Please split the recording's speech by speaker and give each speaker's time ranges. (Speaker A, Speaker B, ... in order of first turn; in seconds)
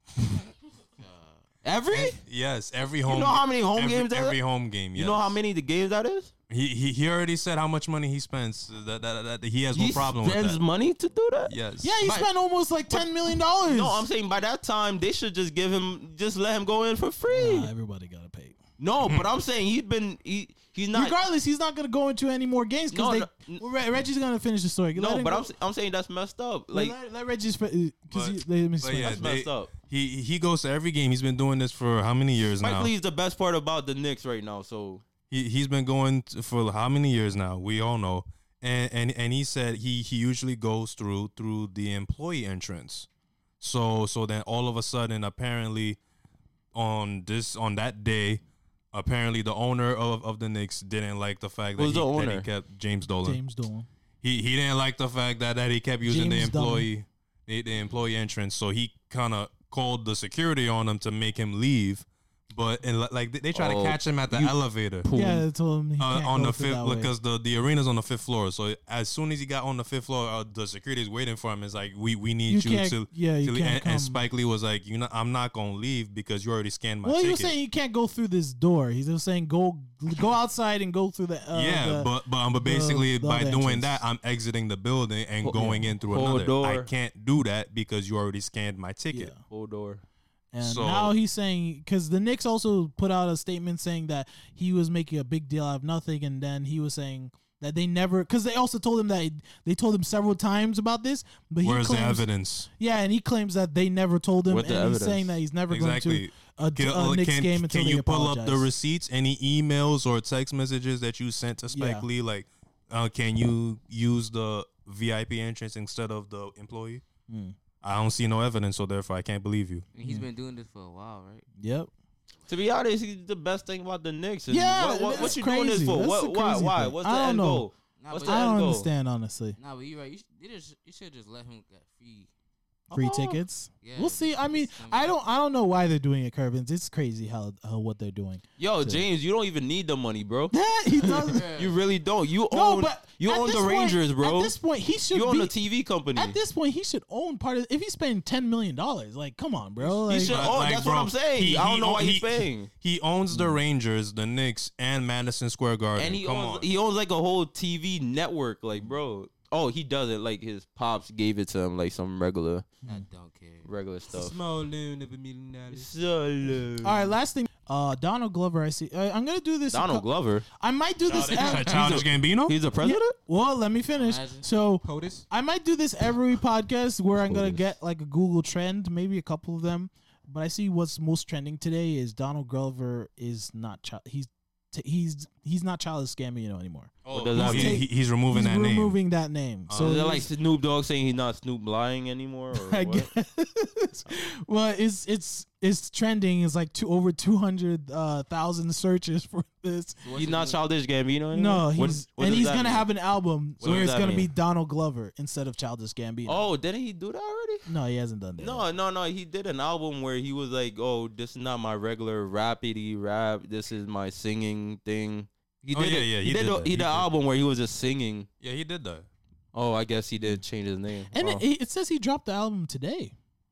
Speaker A: 1.0-1.4, 119.9-121.5, 128.0-128.8, 129.6-132.3, 133.8-135.1, 141.3-141.8, 162.8-163.7, 173.9-174.4, 200.0-200.6
Speaker B: 1.6-2.2, 3.0-4.4, 4.9-6.3, 9.7-12.3, 13.6-17.7, 18.8-21.2, 22.9-23.6, 24.9-26.9, 28.9-29.7, 32.6-35.0, 51.8-52.5, 63.5-65.4, 86.1-86.9, 89.4-90.0, 104.5-105.3, 122.5-128.9, 132.9-133.4, 138.6-144.6, 145.1-146.4, 149.8-152.7, 155.9-162.7, 163.6-164.3, 165.7-167.1, 169.7-170.4, 171.2-173.1, 177.1-177.6, 187.1-187.8, 189.7-193.1, 200.1-202.9, 203.6-204.3, 206.2-207.7, 208.4-218.3, 219.5-221.4
Speaker C: 1.9-5.3, 6.5-10.6, 11.4-12.0, 28.1-32.9, 35.3-43.1, 43.6-46.0, 46.7-48.4, 48.9-53.4, 54.2-65.1, 66.0-77.5, 81.5-89.3, 90.6-91.1, 101.6-102.7, 105.7-117.0, 117.8-119.8, 150.1-156.7, 171.1-172.6, 187.0-189.0, 189.7-190.0, 203.6-204.0, 215.7-217.1, 218.4-219.1
Speaker D: 11.8-14.1, 17.3-18.6, 20.9-25.5, 26.7-29.3, 53.2-53.9, 56.0-56.9, 65.1-67.1, 72.5-74.2, 77.0-84.0, 85.5-85.9, 89.1-89.4, 90.5-102.3, 102.8-108.7, 111.7-112.1, 117.3-117.5, 121.6-121.9, 124.5-127.7, 128.2-129.6, 132.9-139.0, 140.5-141.4, 142.5-145.5, 146.1-150.5, 153.3-153.6, 166.8-172.0, 172.8-190.3, 192.5-200.0, 201.3-206.4, 207.7-208.7, 221.1-223.1
Speaker E: 164.1-165.9, 174.8-175.2